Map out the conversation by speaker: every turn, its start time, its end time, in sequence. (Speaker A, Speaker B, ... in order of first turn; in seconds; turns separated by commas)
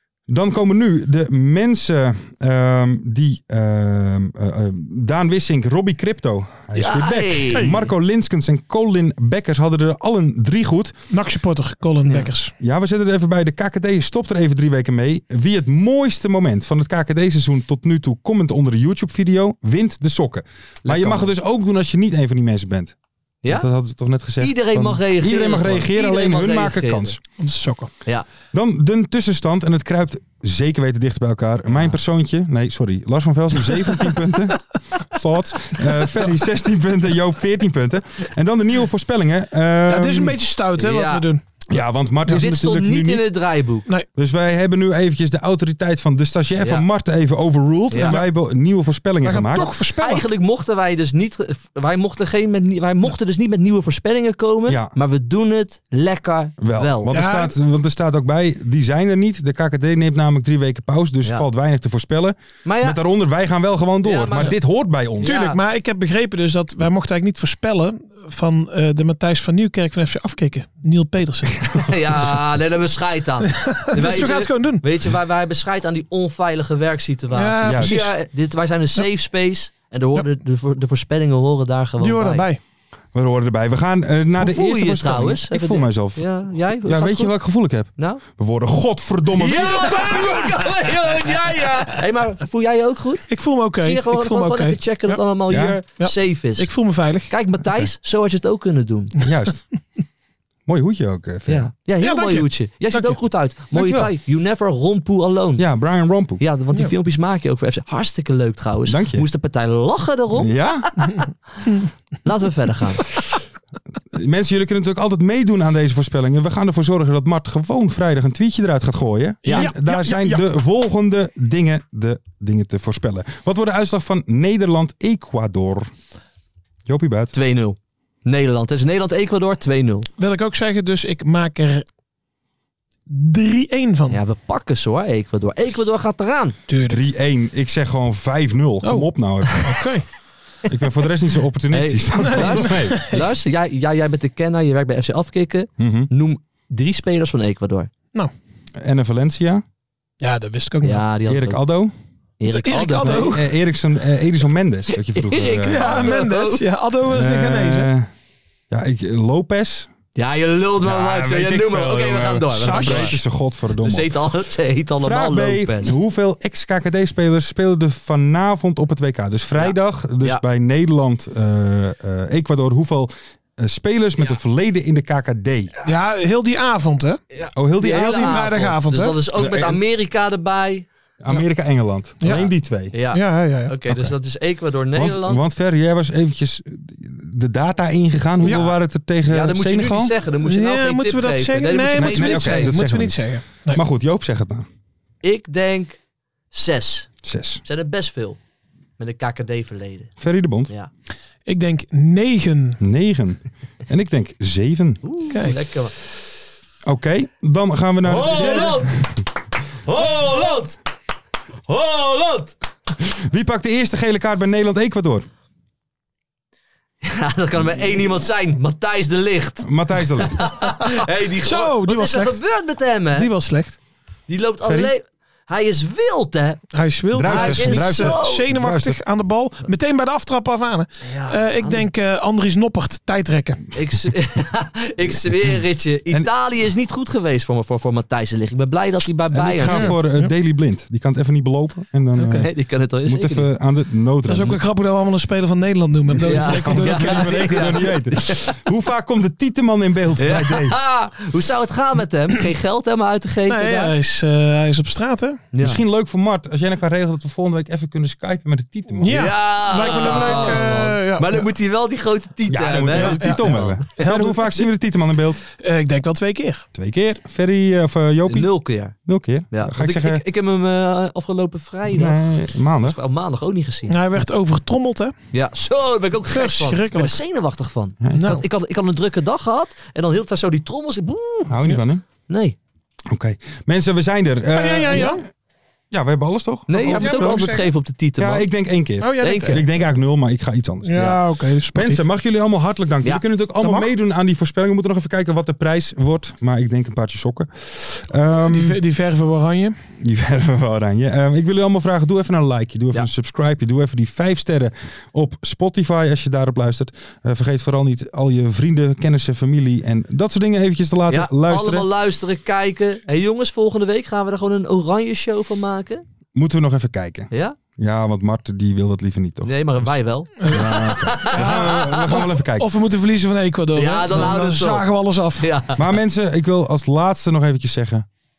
Speaker A: 0.3-10.9, Speaker B: 6.8-7.8, Speaker C: 7.5-7.8, Speaker C: 11.1-12.5, Speaker B: 12.1-12.3, Speaker A: 12.6-27.2, Speaker B: 20.8-21.3, Speaker B: 24.4-27.2, Speaker C: 27.4-27.9, Speaker A: 28.5-40.4, Speaker C: 39.9-41.4, Speaker B: 40.8-41.3, Speaker A: 41.7-43.4, Speaker B: 42.3-43.9, Speaker A: 44.2-49.7, Speaker B: 46.6-46.9, Speaker B: 47.9-48.2, Speaker C: 47.9-48.2, Speaker C: 49.2-50.3, Speaker B: 50.0-57.1, Speaker A: 54.7-54.9, Speaker A: 56.6-65.4, Speaker C: 57.1-57.5, Speaker B: 62.6-63.0, Speaker B: 64.0-64.5, Speaker B: 65.2-65.6, Speaker C: 65.2-71.8, Speaker B: 71.8-82.5, Speaker C: 73.5-74.9, Speaker C: 77.3-78.1, Speaker A: 77.6-77.9, Speaker C: 82.0-82.6, Speaker A: 83.1-90.4, Speaker B: 84.4-87.4, Speaker B: 88.0-88.2, Speaker B: 89.4-96.7, Speaker C: 90.0-90.5, Speaker C: 93.3-94.8, Speaker A: 95.5-95.8, Speaker C: 96.0-97.3, Speaker B: 97.3-99.1, Speaker A: 99.2-99.6, Speaker A: 100.7-101.7, Speaker B: 101.5-105.6, Speaker C: 102.0-103.2, Speaker A: 103.7-104.1, Speaker A: 105.6-106.4, Speaker B: 106.4-110.9, Speaker A: 108.9-109.3, Speaker A: 110.3-110.9, Speaker B: 112.2-113.0, Speaker A: 114.1-125.9, Speaker B: 119.5-119.7, Speaker C: 119.5-120.5, Speaker A: 126.9-127.3, Speaker B: 127.3-130.1, Speaker C: 130.2-131.8, Speaker C: 133.1-134.2, Speaker B: 134.1-136.6, Speaker C: 136.7-137.1, Speaker A: 136.9-139.8, Speaker C: 138.8-140.1, Speaker A: 140.7-143.0, Speaker B: 141.7-147.9, Speaker C: 142.2-143.3, Speaker A: 145.8-146.1, Speaker A: 148.8-149.6, Speaker C: 150.2-151.1, Speaker B: 150.8-151.6, Speaker A: 151.3-151.9, Speaker B: 152.4-153.4, Speaker C: 152.5-153.5, Speaker A: 153.0-156.2, Speaker B: 154.9-156.6, Speaker C: 155.7-157.9, Speaker A: 157.1-158.1, Speaker A: 158.7-159.9, Speaker B: 160.2-163.1, Speaker A: 160.8-164.3, Speaker C: 162.6-163.2, Speaker B: 163.8-165.9, Speaker A: 165.0-175.7, Speaker B: 169.6-170.4, Speaker C: 175.8-177.2, Speaker B: 177.3-180.9, Speaker A: 177.6-178.4, Speaker C: 177.8-179.2, Speaker A: 179.3-179.8, Speaker A: 181.2-182.9, Speaker C: 182.2-182.5, Speaker B: 182.9-185.4, Speaker C: 183.1-183.8, Speaker A: 183.9-184.2, Speaker A: 184.9-190.1, Speaker C: 188.4-188.7, Speaker B: 188.4-188.7, Speaker B: 189.3-192.7, Speaker C: 190.4-193.8, Speaker A: 191.9-194.7, Speaker B: 195.2-196.0, Speaker B: 196.5-197.1, Speaker A: 197.2-197.6, Speaker B: 197.6-198.4, Speaker B: 199.0-200.1, Speaker A: 200.2-200.7, Speaker C: 201.5-202.8, Speaker A: 202.8-205.0, Speaker B: 205.0-205.9, Speaker C: 205.3-205.6, Speaker A: 206.8-208.9, Speaker B: 208.1-208.9, Speaker C: 208.2-208.8, Speaker B: 209.9-210.8, Speaker B: 211.7-212.5, Speaker A: 213.1-215.3, Speaker B: 217.0-219.7, Speaker A: 219.6-220.5, Speaker B: 220.3-223.3, Speaker C: 221.4-222.4, Speaker C: 223.1-223.8, Speaker B: 224.3-226.6, Speaker A: 224.6-224.9, Speaker C: 226.7-233.6, Speaker A: 227.1-229.0, Speaker B: 227.2-228.4, Speaker B: 231.0-231.9, Speaker B: 233.7-239.9, Speaker A: 235.2-236.3, Speaker A: 239.3-244.6, Speaker C: 239.7-240.3, Speaker C: 242.2-242.5, Speaker B: 242.4-243.5, Speaker C: 244.3-247.9, Speaker A: 246.2-250.8, Speaker B: 246.2-248.5, Speaker B: 250.2-253.9, Speaker C: 253.5-255.4, Speaker B: 255.5-255.8, Speaker A: 255.6-260.9, Speaker C: 259.0-261.5, Speaker B: 259.1-264.0, Speaker A: 262.5-265.4, Speaker C: 262.9-264.4, Speaker C: 265.6-266.7, Speaker A: 266.8-270.3, Speaker B: 268.3-268.9, Speaker B: 269.5-273.9, Speaker A: 271.9-273.0, Speaker C: 273.9-275.1, Speaker B: 275.3-281.6, Speaker C: 276.3-277.2, Speaker A: 278.0-278.3, Speaker C: 278.1-278.4, Speaker A: 281.5-282.0, Speaker B: 282.3-282.6, Speaker A: 283.1-285.3, Speaker C: 284.5-285.2, Speaker A: 285.9-287.6, Speaker B: 286.7-288.4, Speaker C: 286.9-287.7, Speaker A: 288.2-291.2, Speaker C: 289.0-289.6, Speaker B: 289.2-289.6, Speaker C: 290.9-292.0, Speaker B: 290.9-291.2, Speaker A: 291.7-298.8, Speaker C: 293.6-293.9, Speaker C: 298.4-299.8, Speaker A: 300.0-311.9, Speaker B: 311.1-316.1, Speaker A: 316.3-319.9, Speaker B: 317.3-317.6, Speaker B: 319.4-321.6, Speaker C: 320.4-325.5, Speaker A: 320.4-322.7, Speaker B: 323.8-324.9, Speaker B: 325.4-325.8, Speaker A: 325.8-328.1